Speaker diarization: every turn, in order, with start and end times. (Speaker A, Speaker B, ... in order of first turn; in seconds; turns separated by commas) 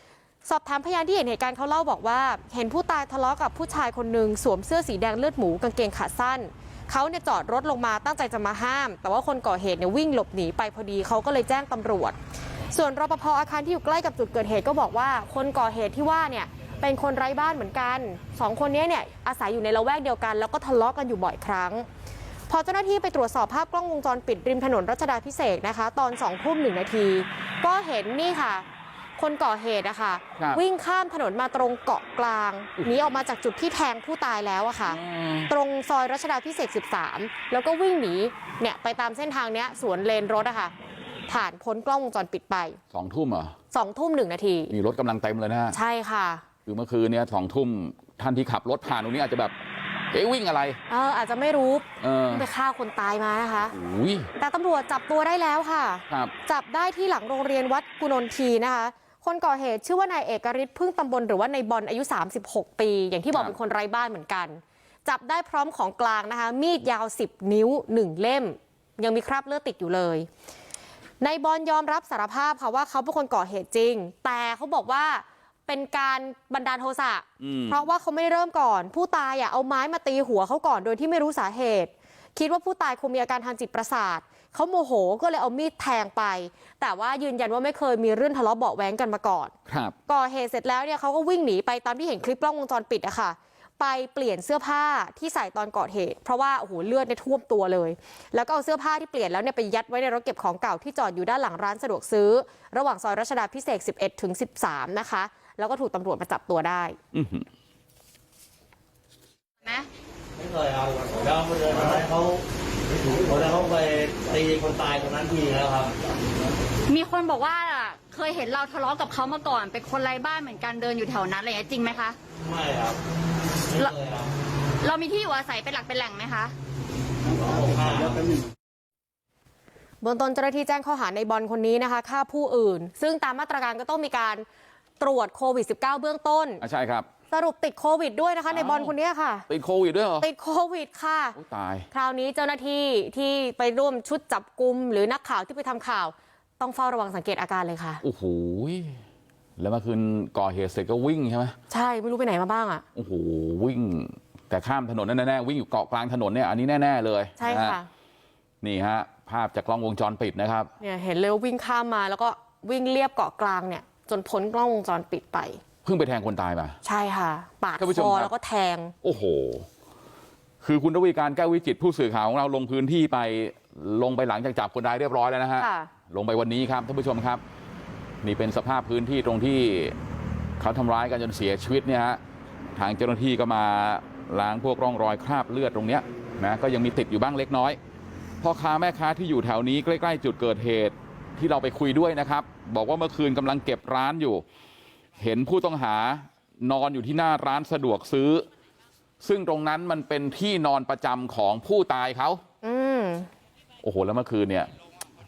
Speaker A: 0.4-12.2, Speaker A: 12.7-21.9, Speaker A: 22.5-28.6, Speaker A: 29.2-40.7, Speaker B: 30.4-30.6, Speaker B: 34.9-35.5, Speaker A: 41.3-42.8, Speaker B: 42.9-43.5, Speaker A: 43.7-44.7, Speaker B: 44.7-45.8, Speaker A: 45.7-46.4, Speaker B: 46.6-49.5, Speaker B: 50.1-50.8, Speaker A: 50.9-53.7, Speaker B: 52.0-52.5, Speaker B: 53.7-54.3, Speaker A: 54.4-70.3, Speaker A: 71.2-89.5, Speaker B: 77.4-77.8, Speaker B: 89.7-90.0, Speaker A: 90.1-107.0, Speaker B: 107.1-107.5, Speaker C: 110.4-112.4, Speaker C: 113.1-115.9, Speaker D: 116.9-122.2, Speaker C: 122.4-123.0, Speaker C: 123.7-124.2, Speaker D: 124.8-126.5, Speaker C: 127.5-128.2, Speaker A: 130.0-134.4, Speaker A: 135.0-136.6, Speaker B: 136.6-137.1, Speaker A: 137.3-139.4, Speaker B: 138.5-138.9, Speaker B: 139.5-140.3, Speaker A: 140.2-141.4, Speaker B: 141.3-141.9, Speaker A: 141.9-148.0, Speaker B: 148.0-149.0, Speaker B: 149.6-151.6, Speaker A: 151.7-152.8, Speaker B: 152.9-157.8, Speaker A: 157.4-157.9, Speaker B: 158.6-160.7, Speaker A: 160.8-165.6, Speaker B: 165.8-166.8, Speaker A: 166.8-168.9, Speaker B: 167.8-168.3, Speaker B: 169.0-169.7, Speaker B: 170.6-177.4, Speaker A: 175.6-175.9, Speaker B: 178.2-179.9, Speaker B: 180.6-182.2, Speaker B: 182.8-187.8, Speaker B: 188.4-194.4, Speaker B: 195.2-198.4, Speaker B: 199.2-202.4, Speaker A: 202.6-203.3, Speaker B: 203.8-204.7